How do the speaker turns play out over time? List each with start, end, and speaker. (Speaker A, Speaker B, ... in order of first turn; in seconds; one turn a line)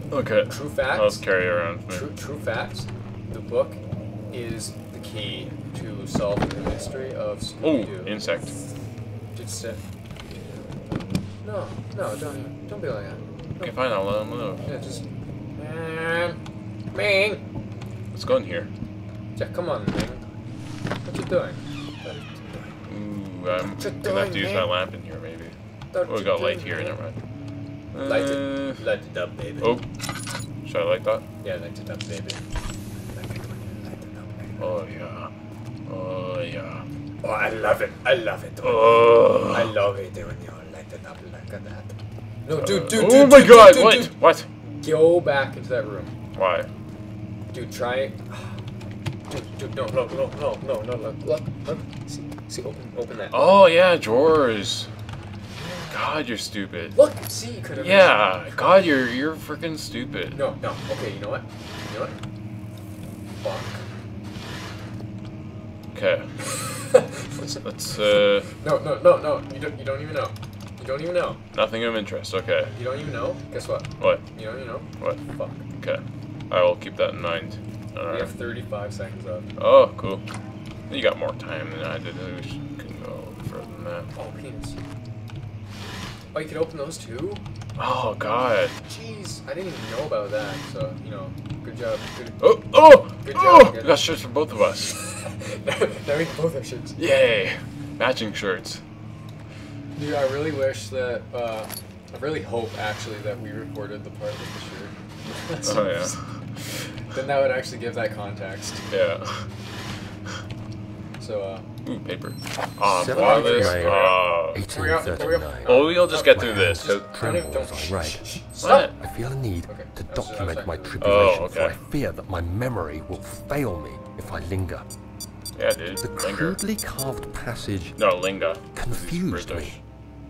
Speaker A: 0.1-2.1
Speaker B: 0.5-1.2
Speaker B: 1.9-8.2
Speaker A: 7.6-8.6
Speaker B: 9.3-9.8
Speaker B: 11.4-13.8
Speaker A: 13.6-14.7
Speaker B: 14.6-15.1
Speaker B: 15.6-16.4
Speaker B: 16.9-17.4
Speaker A: 18.1-18.7
Speaker B: 19.4-20.2
Speaker B: 21.0-22.8
Speaker A: 22.9-25.6
Speaker B: 23.6-24.7
Speaker B: 25.9-27.0
Speaker A: 26.1-27.1
Speaker A: 27.9-28.8
Speaker B: 28.0-29.8
Speaker A: 30.6-31.2
Speaker B: 31.4-32.4
Speaker B: 33.1-34.8
Speaker A: 34.6-35.3
Speaker A: 35.9-36.9
Speaker B: 37.2-46.1
Speaker A: 38.6-39.7
Speaker A: 42.6-44.5
Speaker A: 46.3-46.7
Speaker B: 47.5-48.5
Speaker B: 49.3-53.5
Speaker A: 53.3-54.9
Speaker B: 55.6-56.0
Speaker A: 55.9-57.0
Speaker B: 56.9-58.6
Speaker A: 57.8-60.4
Speaker B: 60.3-62.2
Speaker B: 63.4-63.8
Speaker A: 65.9-66.3
Speaker B: 66.5-67.4
Speaker A: 67.4-68.5
Speaker B: 68.6-71.4
Speaker A: 71.5-72.7
Speaker B: 72.7-75.7
Speaker A: 74.0-74.2
Speaker A: 75.8-78.3
Speaker B: 78.1-79.5
Speaker A: 79.6-80.2
Speaker A: 80.9-84.1
Speaker B: 84.1-84.8
Speaker B: 86.3-87.4
Speaker A: 87.8-88.8
Speaker B: 88.8-92.5
Speaker A: 92.4-94.9
Speaker B: 93.2-94.0
Speaker B: 94.8-97.0
Speaker A: 97.0-98.8
Speaker B: 100.0-106.2
Speaker A: 105.6-106.2
Speaker B: 107.1-108.8
Speaker A: 108.9-109.5
Speaker B: 111.2-111.7
Speaker A: 111.8-117.0
Speaker C: 112.8-124.9
Speaker B: 113.0-119.0
Speaker A: 118.6-118.9
Speaker B: 119.7-121.3
Speaker A: 121.0-121.8
Speaker A: 125.5-126.6
Speaker C: 126.0-128.0
Speaker A: 128.0-129.8
Speaker C: 128.7-129.7